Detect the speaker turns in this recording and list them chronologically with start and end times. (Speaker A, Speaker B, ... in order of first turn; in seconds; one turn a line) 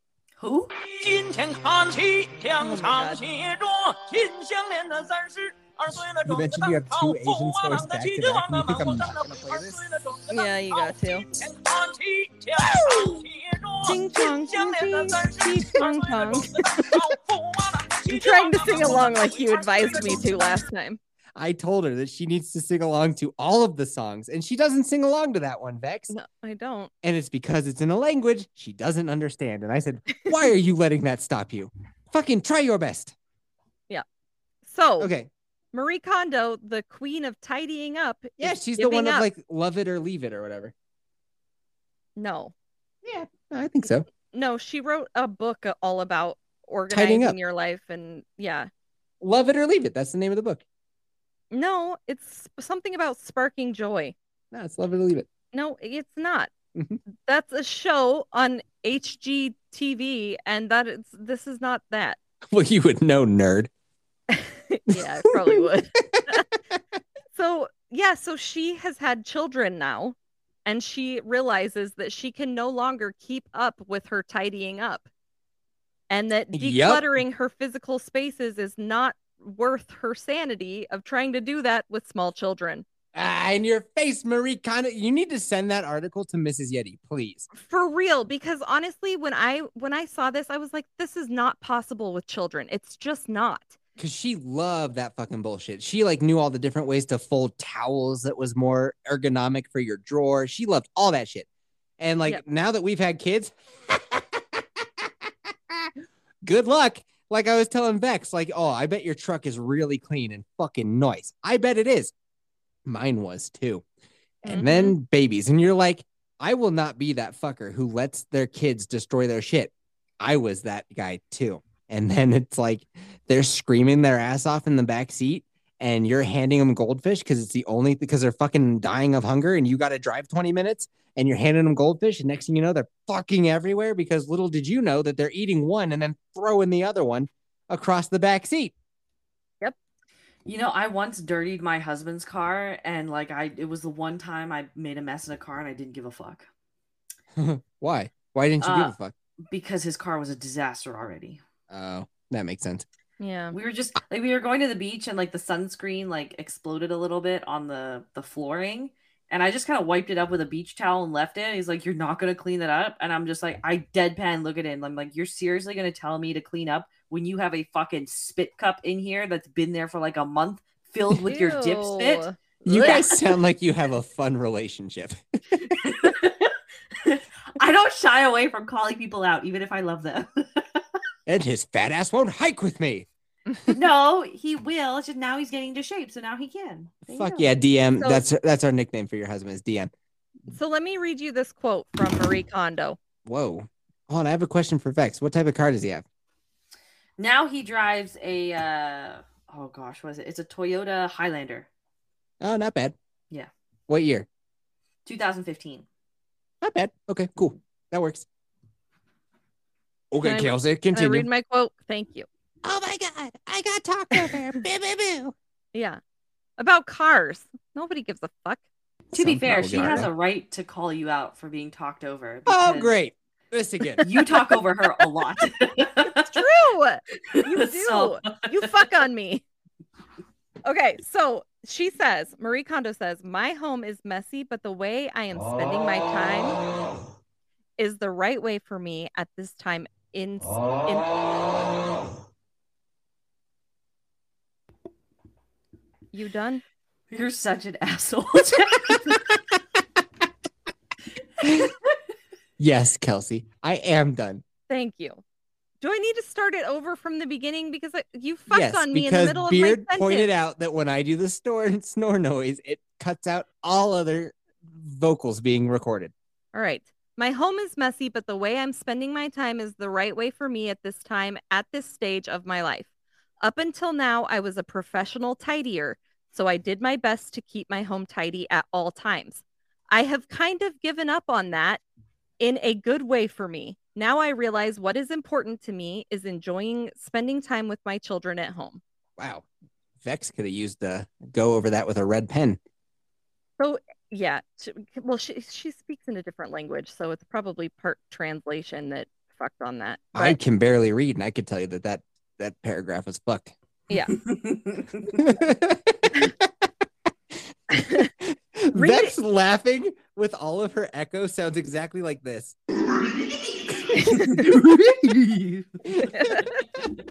Speaker A: 0.4-0.7
Speaker B: 0.7-20.7
Speaker C: 2.6-3.2
Speaker D: 6.2-9.9
Speaker C: 10.3-11.3
Speaker C: 12.9-13.2
Speaker C: 13.8-16.5
Speaker C: 18.1-21.0
Speaker D: 21.4-26.1
Speaker C: 26.1-26.9
Speaker D: 27.0-33.1
Speaker C: 34.7-35.1
Speaker D: 35.0-35.3
Speaker C: 35.7-39.3
Speaker D: 38.4-40.7
Speaker C: 42.2-42.5
Speaker D: 43.0-44.1
Speaker C: 44.3-48.7
Speaker D: 46.9-47.4
Speaker D: 49.2-50.6
Speaker C: 51.5-54.1
Speaker D: 54.5-55.3
Speaker C: 55.5-56.5
Speaker C: 57.2-62.2
Speaker D: 62.5-63.7
Speaker C: 64.3-66.5
Speaker D: 64.9-66.3
Speaker C: 67.3-75.1
Speaker C: 76.1-82.8
Speaker D: 76.5-77.2
Speaker D: 83.2-87.5
Speaker C: 87.5-93.8
Speaker D: 94.0-101.5
Speaker D: 102.0-104.6
Speaker D: 106.4-112.1
Speaker D: 112.9-113.8
Speaker D: 114.4-138.7
Speaker C: 114.5-115.0
Speaker A: 140.4-146.5
Speaker D: 147.4-149.1
Speaker A: 148.6-151.4
Speaker D: 151.7-152.9
Speaker C: 153.2-153.6
Speaker A: 153.5-172.2
Speaker C: 171.2-173.2
Speaker D: 172.7-175.8
Speaker A: 172.8-173.1
Speaker A: 175.8-181.0
Speaker D: 181.3-183.1
Speaker A: 183.7-187.5
Speaker D: 187.1-189.9
Speaker C: 190.5-193.0
Speaker D: 193.2-196.1
Speaker A: 197.2-201.7
Speaker D: 202.4-203.0
Speaker D: 203.9-204.3
Speaker A: 205.1-205.9
Speaker D: 206.6-208.3
Speaker D: 210.1-211.3
Speaker C: 210.2-212.3
Speaker D: 212.6-215.3
Speaker C: 215.7-216.0
Speaker C: 216.6-218.6
Speaker D: 219.1-220.1
Speaker A: 219.1-222.9
Speaker D: 222.5-224.1
Speaker A: 224.0-226.3
Speaker C: 226.2-229.4
Speaker A: 227.3-228.9
Speaker C: 230.6-236.6
Speaker C: 237.8-241.5
Speaker C: 246.1-246.6
Speaker A: 247.1-249.2
Speaker A: 251.4-251.9
Speaker D: 252.6-254.4
Speaker C: 254.7-255.2
Speaker C: 255.8-260.3
Speaker D: 258.5-266.1
Speaker C: 266.5-272.9
Speaker C: 273.4-281.8
Speaker C: 282.4-288.8
Speaker D: 289.2-289.5
Speaker D: 290.0-292.6
Speaker C: 293.6-300.4
Speaker D: 300.1-303.5
Speaker C: 303.9-304.2
Speaker A: 304.2-305.2
Speaker D: 305.1-306.5
Speaker C: 307.7-308.1
Speaker D: 308.2-312.6
Speaker C: 308.7-309.1
Speaker C: 314.0-314.5
Speaker A: 314.1-315.8
Speaker D: 315.9-316.1
Speaker C: 316.1-316.7